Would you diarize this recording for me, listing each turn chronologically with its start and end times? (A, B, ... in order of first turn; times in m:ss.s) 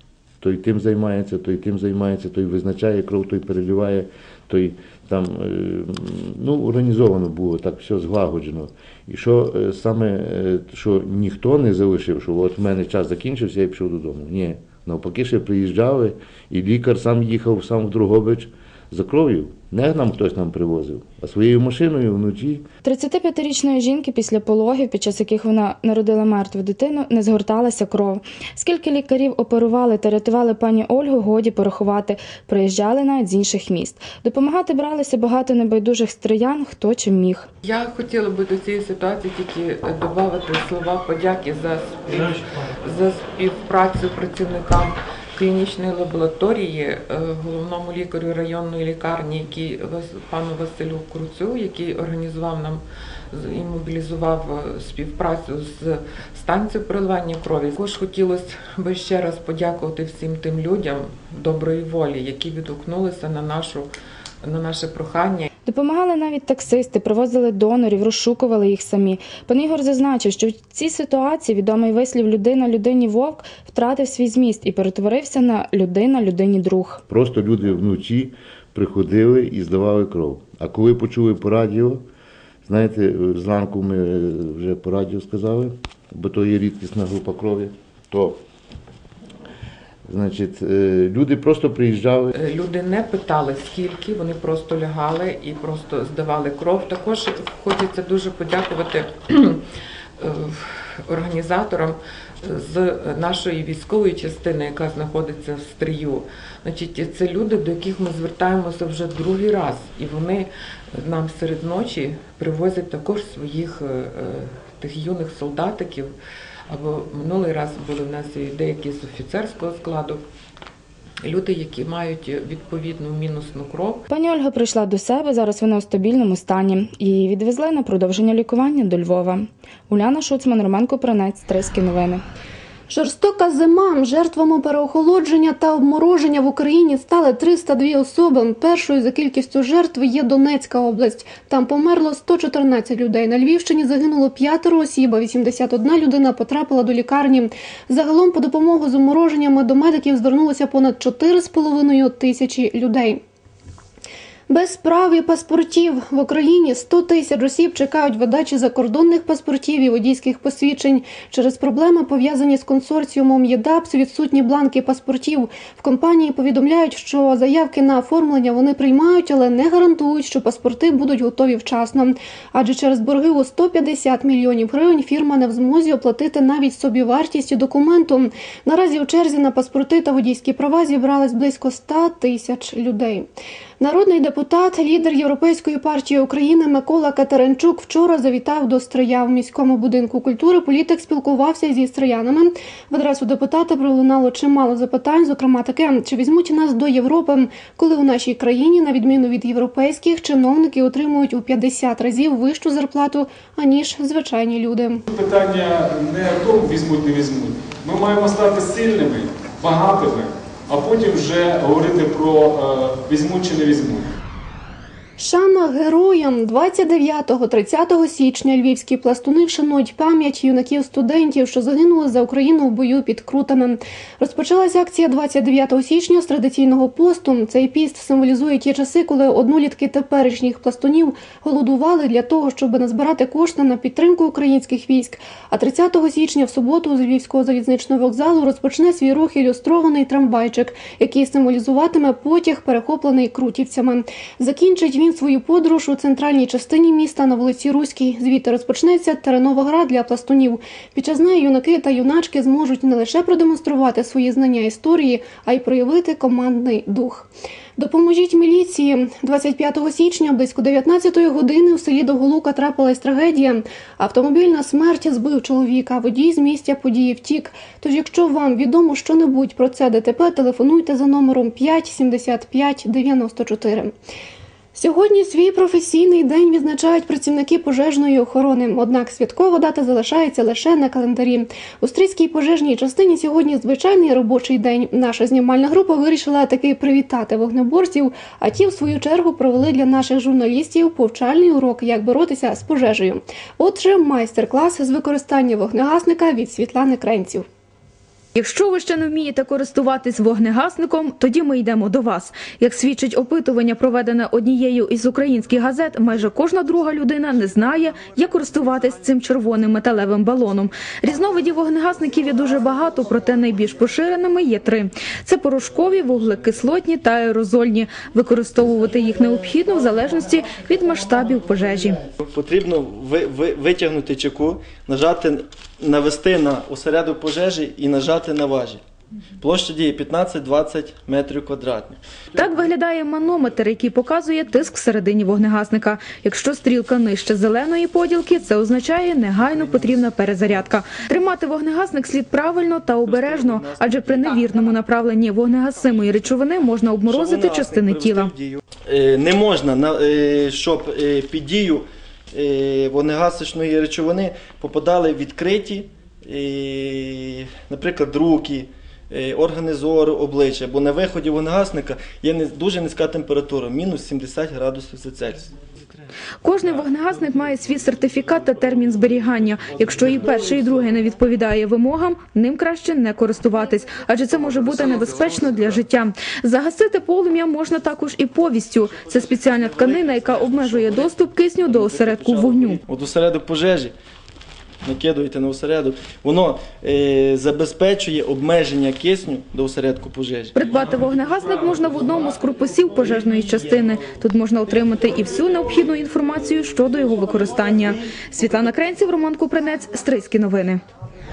0:00.4-0:22.7 A
0:22.8-0:37.5 B
0:37.6-1:03.9 C
1:04.4-1:05.5 C
1:05.7-1:17.0 B
1:17.1-1:22.0 A
1:22.6-1:28.4 A
1:30.1-1:32.3 A
1:32.4-1:39.6 C
1:40.2-1:50.5 C
1:51.0-1:56.1 C
1:56.7-2:00.2 C
2:01.2-2:04.0 C
2:04.1-2:12.2 B
2:12.9-2:33.2 D
2:34.5-3:03.3 D
3:03.8-3:25.0 D
3:25.1-3:34.1 E
3:35.2-4:33.9 D
4:34.8-4:57.5 D
4:58.4-5:22.0 F
5:22.2-5:28.8 G
5:29.4-5:32.0 G
5:32.3-5:48.4 F
5:39.7-5:40.0 G
5:43.0-5:44.7 G
5:47.0-6:05.6 G
6:06.4-6:22.8 F
6:09.7-6:10.6 G
6:14.3-6:15.8 G
6:19.0-6:23.9 G
6:24.8-6:30.6 G
6:30.5-6:40.8 F
6:30.7-6:32.4 E